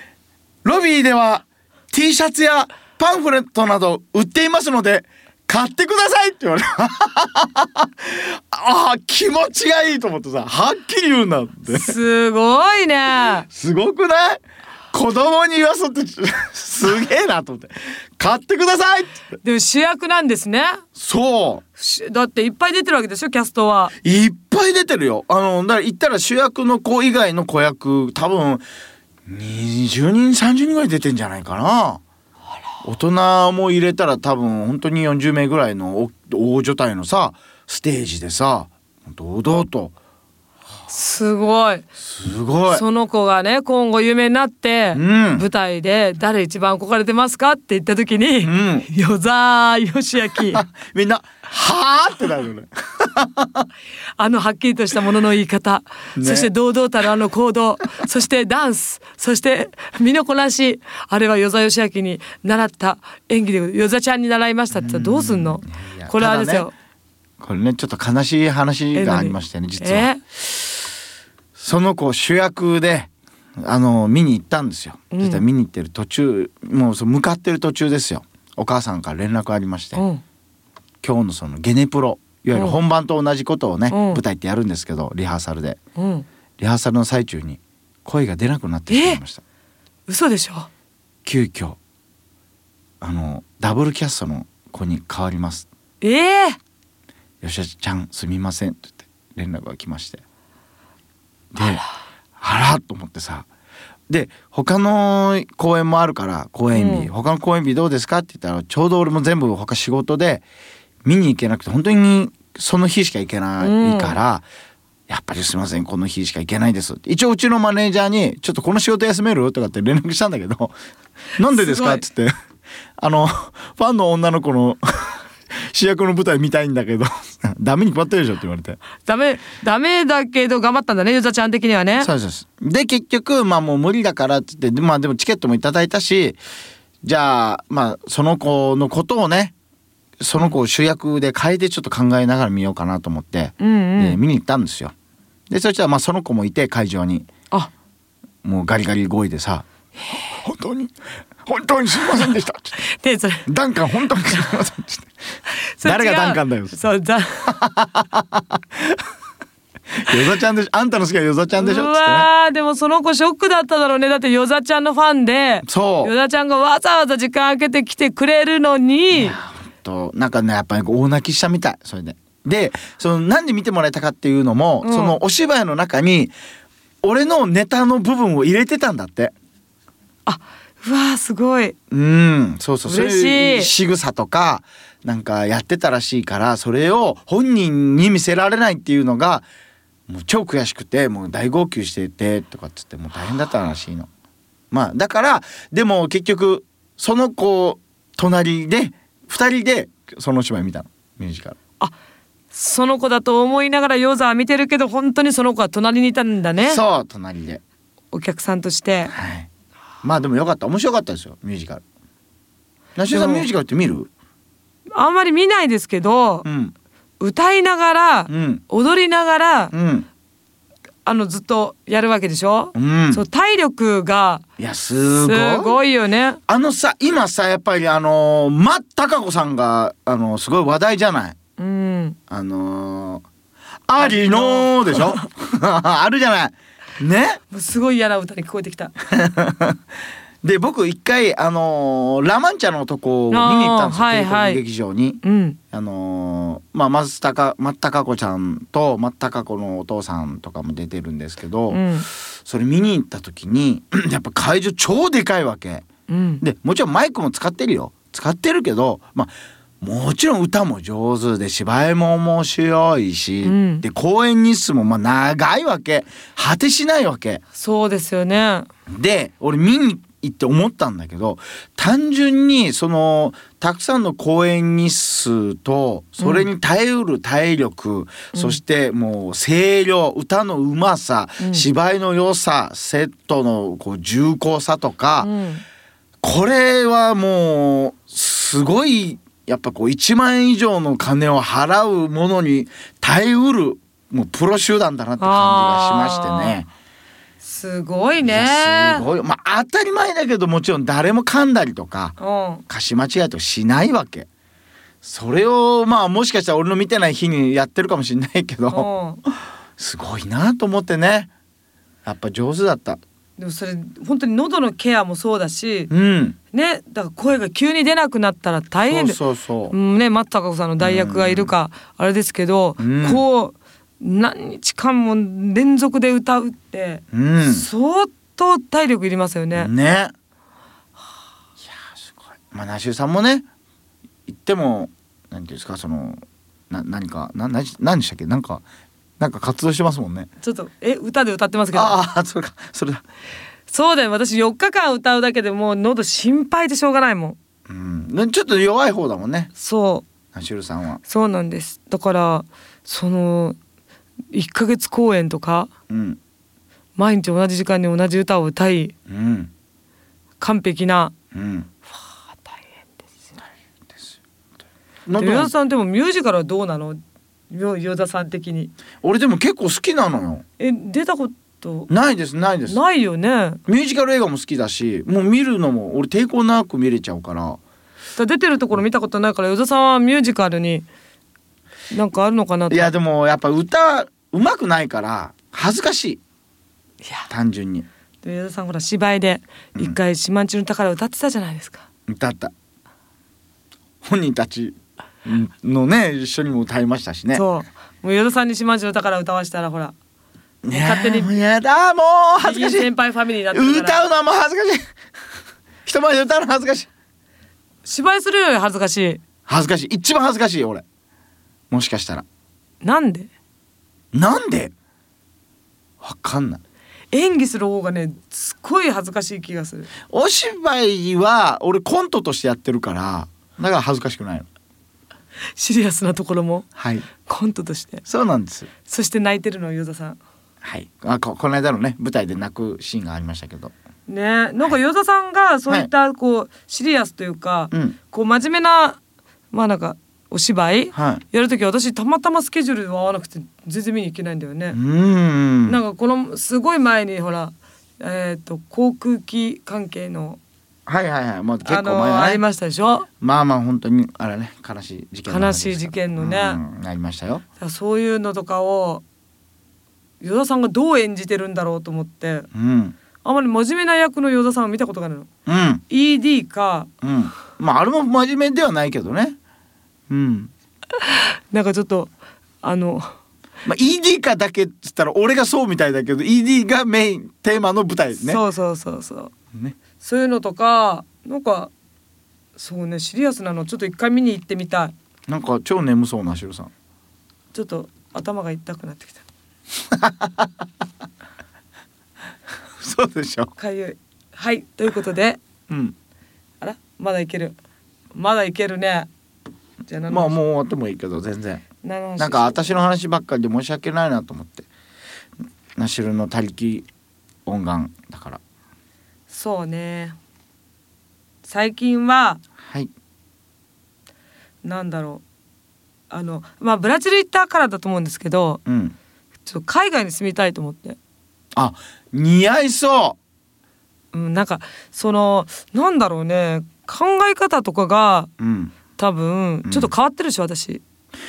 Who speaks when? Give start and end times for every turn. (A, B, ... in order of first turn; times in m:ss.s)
0:00.6-0:11.9 A
0:11.7-0:13.4 B
0:13.5-0:19.2 A
0:19.4-0:20.8 B
0:21.0-0:21.6 A
0:21.8-0:23.9 B
0:24.0-0:28.6 A
0:29.3-0:32.0 A
0:32.8-0:39.9 A
0:40.9-0:41.8 B
0:42.0-0:42.8 A
0:42.7-0:50.6 B
0:44.9-0:45.4 A
0:48.4-0:48.9 A
0:50.4-0:53.7 A
0:54.2-1:06.7 B
0:56.2-0:56.5 A
1:04.7-1:06.7 A
1:07.4-1:10.9 A
1:08.9-1:10.2 B
1:11.6-1:20.0 A
1:15.1-1:15.4 B
1:19.9-1:20.2 B
1:21.0-1:25.8 A
1:22.5-1:22.8 B
1:23.9-1:24.2 B
1:26.0-1:26.2 B
1:26.6-1:29.4 A
1:28.9-1:29.2 B
1:30.1-1:30.7 B
1:31.2-1:31.8 A
1:33.0-1:35.6 A
1:36.0-1:36.6 B
1:37.4-1:40.2 A
1:41.5-1:41.8 A
1:42.4-1:43.5 A
1:44.1-1:50.4 A
1:46.7-1:47.1 B
1:51.0-1:54.4 A
1:53.6-1:54.2 B
1:55.1-2:00.7 A
2:01.4-2:02.3 A
2:01.4-2:02.0 B
2:03.0-2:08.8 A
2:09.0-2:12.1 B
2:12.0-2:16.4 A
2:17.0-2:19.5 A
2:20.2-2:24.9 A
2:23.6-2:24.2 B
2:25.5-2:27.3 A
2:28.4-2:30.9 A
2:31.4-2:32.8 A
2:32.8-2:33.5 B
2:33.4-2:35.1 A
2:35.5-2:37.5 B
2:35.8-2:36.8 A
2:37.4-2:39.0 A
2:39.9-2:42.3 A
2:41.6-2:49.4 B
2:45.6-2:46.1 A
2:49.1-2:56.3 A
2:54.8-2:55.2 B
2:57.0-2:59.3 A
3:00.2-3:01.8 B
3:01.9-3:09.5 A
3:02.8-3:03.7 B
3:10.1-3:14.1 A
3:14.7-3:21.6 A
3:22.5-3:26.8 B
3:26.6-3:27.6 A
3:28.1-3:29.1 B
3:29.1-3:29.5 A
3:30.0-3:31.8 A
3:33.0-3:34.1 A
3:33.1-3:33.5 B
3:34.9-3:36.4 B
3:36.4-3:36.7 A
3:37.2-3:39.7 B
3:38.3-3:38.6 A
3:39.7-3:40.1 A
3:41.0-3:44.4 B
3:42.7-3:43.2 A
3:44.6-3:45.8 A
3:45.2-3:46.4 B
3:46.5-3:51.4 A
3:51.6-3:52.2 B
3:52.3-3:53.2 A
3:53.9-3:57.4 A
3:54.0-3:55.2 B
3:57.5-3:58.9 B
3:59.0-3:59.8 A
4:00.4-4:05.2 A
4:03.3-4:04.6 B
4:05.2-4:05.6 B
4:05.7-4:15.8 A
4:11.7-4:12.1 B
4:16.1-4:16.4 B
4:16.4-4:27.4 A
4:23.4-4:23.8 B
4:27.5-4:28.7 B
4:28.9-4:45.3 A
4:36.2-4:36.5 B
4:38.3-4:38.6 B
4:41.4-4:41.6 B
4:45.2-4:45.6 B
4:46.2-4:56.7 A
4:55.2-4:56.6 B
4:57.4-4:59.0 B
4:58.2-5:02.2 A
5:02.2-5:02.6 B
5:02.7-5:04.3 A
5:05.0-5:11.3 A
5:08.7-5:09.2 B
5:12.0-5:13.0 A
5:13.4-5:15.9 B
5:15.9-5:16.4 A
5:16.5-5:19.2 B
5:18.9-5:19.7 A
5:19.7-5:29.7 B
5:20.8-5:21.5 A
5:22.8-5:23.2 A
5:27.1-5:27.7 A
5:29.6-5:30.1 A
5:31.6-5:33.4 A
5:34.3-5:38.6 A
5:39.2-5:40.3 A
5:40.4-5:42.0 B
5:41.7-5:43.0 A
5:43.7-5:47.4 B
5:47.7-5:49.5 A
5:49.6-5:50.0 B
5:50.3-5:51.0 A
5:51.0-5:53.6 B
5:54.3-5:55.7 B
5:55.9-5:56.2 A
5:57.0-5:58.9 B
5:59.1-5:59.5 A
6:00.4-6:01.1 B
6:01.3-6:01.7 A
6:03.9-6:04.2 A
6:05.0-6:05.5 A
6:05.2-6:08.7 B
6:09.0-6:10.4 A
6:10.6-6:11.9 B
6:11.9-6:12.8 A
6:12.7-6:13.6 B
6:13.7-6:17.6 A
6:18.2-6:20.8 B
6:21.9-6:22.9 B
6:22.7-6:26.2 A
6:27.0-6:27.3 B
6:27.3-6:27.9 A
6:28.2-6:31.8 B
6:32.1-6:32.5 A
6:34.0-6:37.4 A
6:37.3-6:39.9 B
6:40.6-6:42.9 A
6:40.7-6:41.3 B
6:42.4-6:44.0 B
6:43.5-6:44.9 A
6:45.8-6:46.9 A
6:47.8-6:49.2 B
6:49.5-6:50.8 A
6:51.7-6:52.2 A
6:52.8-6:53.3 B
6:54.1-6:54.7 A
6:56.0-6:56.6 A
6:57.1-6:59.9 B
7:00.1-7:04.5 A
7:05.6-7:06.7 B
7:06.8-7:07.0 A
7:07.2-7:08.0 B
7:08.1-7:08.7 A
7:08.8-7:10.2 B
7:10.6-7:13.7 A
7:14.1-7:19.0 B
7:17.7-7:18.0 A
7:19.5-7:24.8 B
7:20.9-7:21.2 A
7:24.7-7:25.8 A
7:25.6-7:30.4 B
7:30.9-7:32.4 A
7:31.6-7:33.1 B
7:33.2-7:37.4 A
7:35.3-7:36.6 B
7:37.6-7:39.0 B
7:40.2-7:42.5 B
7:42.5-7:43.0 A
7:43.2-7:45.3 B
7:45.4-7:45.8 A
7:45.9-7:46.9 B
7:47.0-7:49.4 A
7:50.1-7:50.5 A
7:51.0-7:52.1 B
7:52.6-7:53.1 B
7:53.6-7:58.4 A
7:58.2-7:59.3 B
8:00.0-8:01.7 B
8:02.6-8:04.9 B
8:05.3-8:06.7 A
8:07.5-8:09.2 B
8:09.9-8:10.5 A
8:12.8-8:13.5 A
8:13.6-8:15.4 B
8:15.7-8:16.0 A
8:16.6-8:17.5 B
8:18.1-8:19.1 B
8:19.8-8:20.4 B
8:20.1-8:21.6 A
8:21.8-8:22.8 B
8:22.2-8:24.7 A
8:25.8-8:26.8 A
8:27.4-8:28.4 A
8:29.3-8:30.2 B
8:31.4-8:32.4 B
8:32.6-8:32.9 A
8:34.6-8:35.2 B
8:36.1-8:38.6 B
8:38.6-8:38.9 A
8:39.4-8:41.0 B
8:41.5-8:43.2 A
8:44.1-8:48.3 B
8:48.4-8:48.7 A
8:49.0-8:50.8 B
8:49.6-8:49.9 A